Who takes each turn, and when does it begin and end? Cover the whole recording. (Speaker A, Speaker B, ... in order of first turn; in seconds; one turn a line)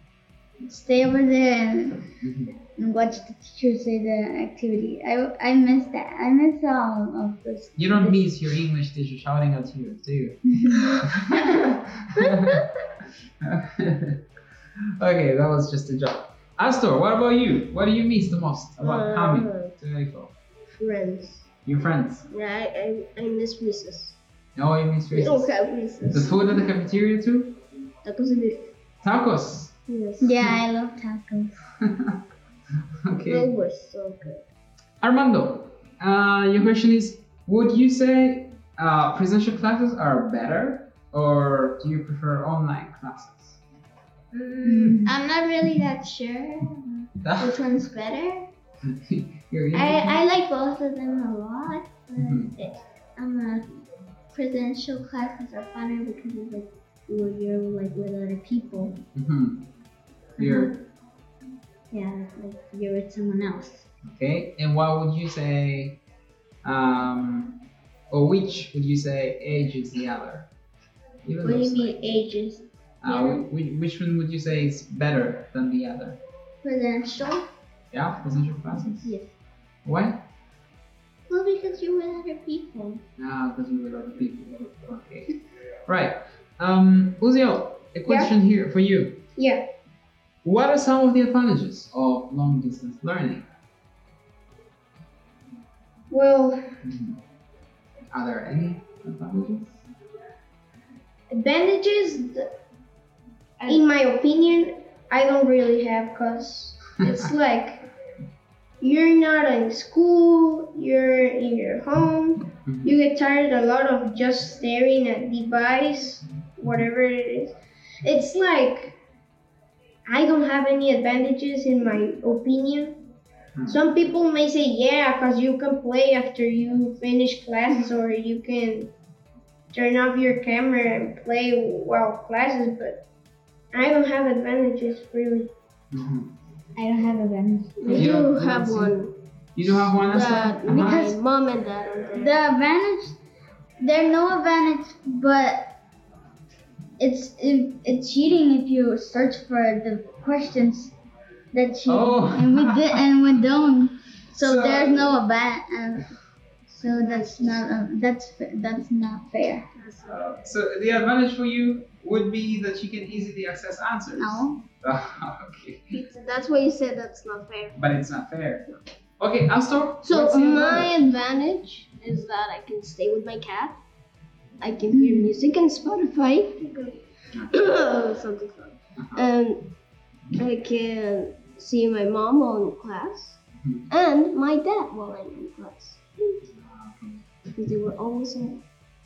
Speaker A: 0.6-2.1
Speaker B: 2.2-2.5
Speaker A: 2.8-8.2
Speaker B: 7.8-12.7
Speaker C: 12.2-12.6
Speaker B: 13.4-14.2
Speaker B: 15.0-20.3
Speaker C: 18.8-19.8
Speaker C: 20.8-21.5
Speaker B: 21.6-22.3
Speaker C: 22.3-24.2
Speaker B: 24.6-25.5
Speaker C: 25.1-26.5
Speaker B: 26.1-27.6
Speaker C: 28.1-28.7
Speaker B: 29.0-29.8
Speaker C: 29.9-30.4
Speaker A: 30.2-31.6
Speaker B: 31.8-32.2
Speaker B: 33.0-33.5
Speaker C: 33.2-34.4
Speaker B: 35.0-43.6
Speaker D: 44.3-48.5
Speaker A: 44.6-45.2
Speaker B: 47.2-47.6
Speaker B: 48.8-50.2
Speaker D: 49.7-53.8
Speaker B: 52.2-52.5
Speaker D: 54.3-59.0
Speaker B: 59.1-59.7
Speaker B: 60.4-60.7
Speaker D: 60.4-60.8
Speaker D: 61.9-63.9
Speaker B: 64.0-66.0
Speaker B: 66.6-67.6
Speaker B: 68.1-70.5
Speaker B: 71.2-72.0
Speaker D: 71.4-73.5
Speaker B: 73.0-76.2
Speaker D: 76.6-77.5
Speaker B: 77.9-79.1
Speaker D: 79.0-79.3
Speaker B: 79.8-80.3
Speaker D: 81.3-83.0
Speaker B: 83.2-85.4
Speaker B: 85.9-89.2
Speaker E: 89.4-89.7
Speaker B: 90.4-93.5
Speaker E: 96.1-96.7
Speaker B: 96.8-97.2
Speaker B: 98.1-99.8
Speaker E: 101.3-102.5
Speaker E: 103.6-107.9
Speaker E: 108.8-119.0
Speaker B: 112.7-113.0
Speaker E: 120.1-123.0
Speaker E: 123.7-128.9
Speaker E: 129.7-133.0
Speaker E: 133.7-135.5
Speaker B: 135.9-136.3
Speaker A: 136.8-138.1
Speaker C: 137.8-139.1
Speaker B: 137.9-139.0
Speaker B: 139.6-141.1
Speaker C: 139.9-142.4
Speaker A: 140.7-141.1
Speaker A: 142.2-143.2
Speaker A: 143.8-145.8
Speaker A: 147.0-150.9
Speaker A: 151.5-156.1
Speaker B: 151.9-153.0
Speaker B: 154.3-155.2
Speaker C: 156.7-157.6
Speaker A: 156.8-159.7
Speaker C: 159.8-160.2
Speaker B: 160.1-166.0
Speaker A: 164.2-164.6
Speaker C: 165.9-167.8
Speaker B: 167.8-171.1
Speaker C: 170.0-173.8
Speaker C: 174.6-179.7
Speaker A: 174.9-175.3
Speaker B: 179.0-179.2
Speaker C: 180.3-186.4
Speaker B: 183.6-183.9
Speaker B: 186.6-187.2
Speaker C: 187.6-188.6